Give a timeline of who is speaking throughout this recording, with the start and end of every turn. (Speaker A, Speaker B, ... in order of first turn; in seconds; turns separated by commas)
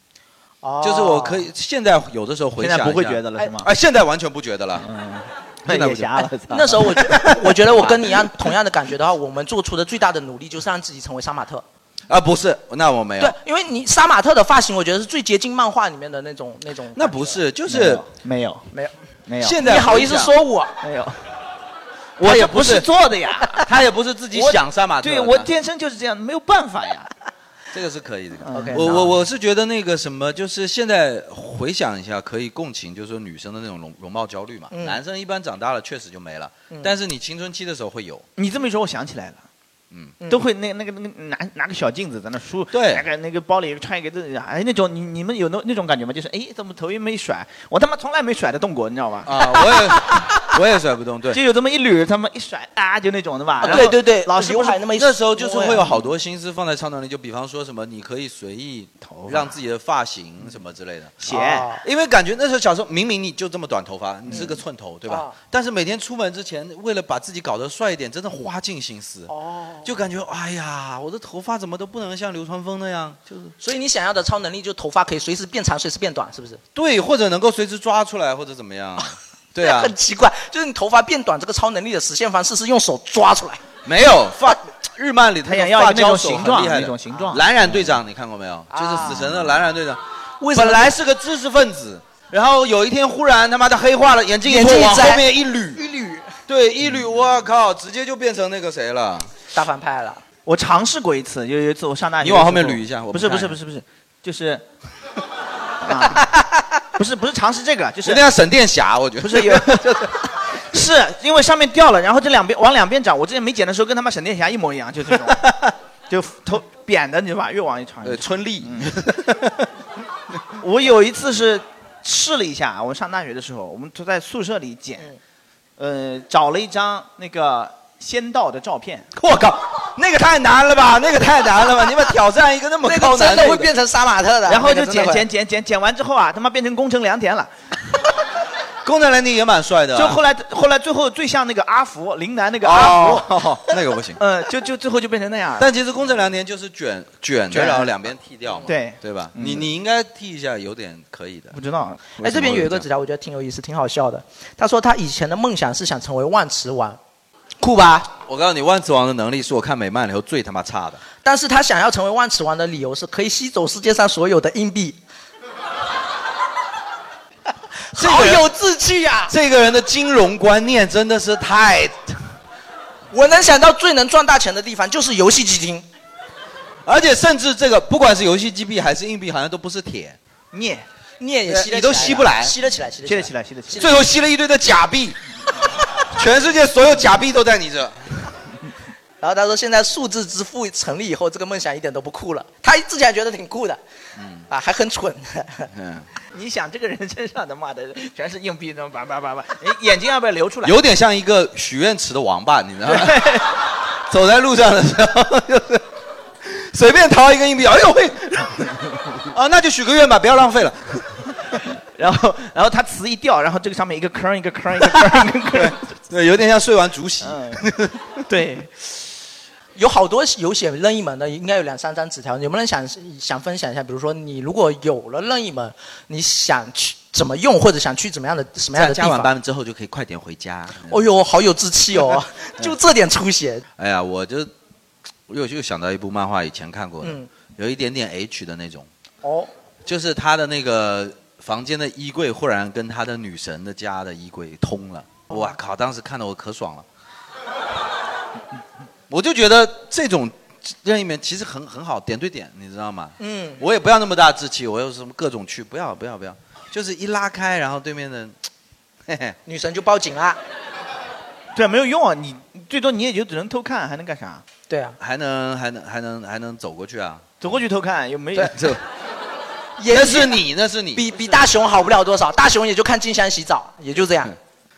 Speaker A: 0.6-1.4, Speaker B: 0.8-4.9, Speaker C: 2.6-3.7, Speaker C: 4.8-7.9, Speaker B: 5.7-6.3, Speaker A: 6.5-11.6, Speaker B: 12.1-13.3, Speaker A: 13.2-17.4, Speaker B: 16.9-18.0, Speaker C: 17.7-18.7, Speaker C: 19.3-19.6, Speaker B: 19.4-20.3, Speaker A: 19.6-20.8, Speaker C: 20.8-21.2, Speaker B: 22.2-22.9, Speaker C: 22.2-23.7, Speaker B: 23.6-25.5, Speaker C: 24.3-27.1, Speaker B: 27.7-38.2, Speaker C: 28.4-29.1, Speaker A: 28.5-28.9, Speaker A: 34.7-35.0, Speaker C: 38.4-39.4, Speaker C: 40.3-49.3, Speaker B: 42.7-43.1, Speaker B: 49.2-51.4, Speaker C: 51.3-54.9, Speaker A: 53.6-55.7, Speaker B: 55.0-61.2, Speaker C: 55.5-56.0, Speaker C: 59.0-59.6, Speaker C: 61.2-61.7, Speaker A: 61.3-61.8, Speaker B: 61.8-69.3, Speaker A: 65.1-65.3, Speaker A: 69.3-69.9, Speaker B: 69.8-73.5, Speaker A: 73.6-76.6, Speaker B: 76.8-79.9, Speaker A: 79.6-83.6, Speaker B: 83.8-95.8, Speaker C: 85.5-87.5, Speaker A: 88.7-89.3, Speaker A: 90.4-90.9, Speaker A: 94.4-96.3, Speaker B: 96.5-99.3, Speaker A: 99.5-100.2, Speaker C: 100.5-104.6, Speaker B: 102.2-103.6, Speaker C: 105.8-106.3, Speaker C: 107.0-108.2, Speaker B: 108.0-110.0, Speaker C: 109.2-115.5, Speaker C: 116.1-119.0, Speaker B: 118.0-119.7, Speaker C: 120.6-125.1, Speaker C: 125.8-129.1, Speaker B: 129.1-133.7, Speaker A: 132.8-135.2, Speaker C: 134.5-137.5, Speaker B: 138.8-140.2, Speaker C: 139.9-143.3, Speaker B: 142.6-144.2, Speaker C: 144.2-145.7, Speaker B: 145.6-151.6, Speaker C: 147.5-147.9, Speaker C: 148.6-149.7, Speaker C: 151.5-152.1, Speaker B: 152.1-152.8, Speaker A: 152.2-157.0, Speaker A: 157.6-158.1, Speaker B: 158.2-161.0, Speaker A: 161.2-165.0, Speaker A: 167.9-169.3, Speaker B: 168.0-168.5, Speaker B: 169.3-172.2, Speaker A: 173.1-175.8, Speaker B: 176.8-180.2, Speaker C: 180.5-180.8, Speaker A: 181.2-183.9, Speaker B: 181.5-182.5, Speaker C: 183.0-184.0, Speaker B: 183.7-185.2, Speaker B: 186.1-188.3, Speaker A: 189.2-193.8, Speaker B: 194.2-194.4, Speaker A: 194.5-195.7, Speaker B: 195.7-196.1, Speaker C: 196.3-200.8, Speaker B: 200.6-203.5, Speaker C: 202.9-203.4, Speaker B: 204.1-205.9, Speaker B: 206.4-211.4, Speaker C: 212.0-215.8, Speaker B: 214.8-218.1, Speaker C: 217.2-217.6, Speaker C: 218.3-218.9, Speaker A: 219.8-229.3, Speaker B: 228.7-231.0, Speaker A: 230.8-233.6, Speaker B: 233.8-234.5, Speaker B: 235.3-238.9, Speaker A: 237.0-237.3, Speaker A: 239.2-239.5, Speaker B: 239.8-246.9, Speaker B: 249.1-258.4, Speaker A: 253.2-253.6, Speaker B: 259.1-259.4, Speaker A: 259.4-260.4, Speaker C: 261.5-264.4, Speaker A: 264.7-265.0, Speaker B: 265.0-267.2, Speaker C: 267.4-268.5, Speaker B: 268.5-268.8, Speaker A: 269.8-270.4, Speaker B: 269.9-271.1, Speaker A: 270.9-274.3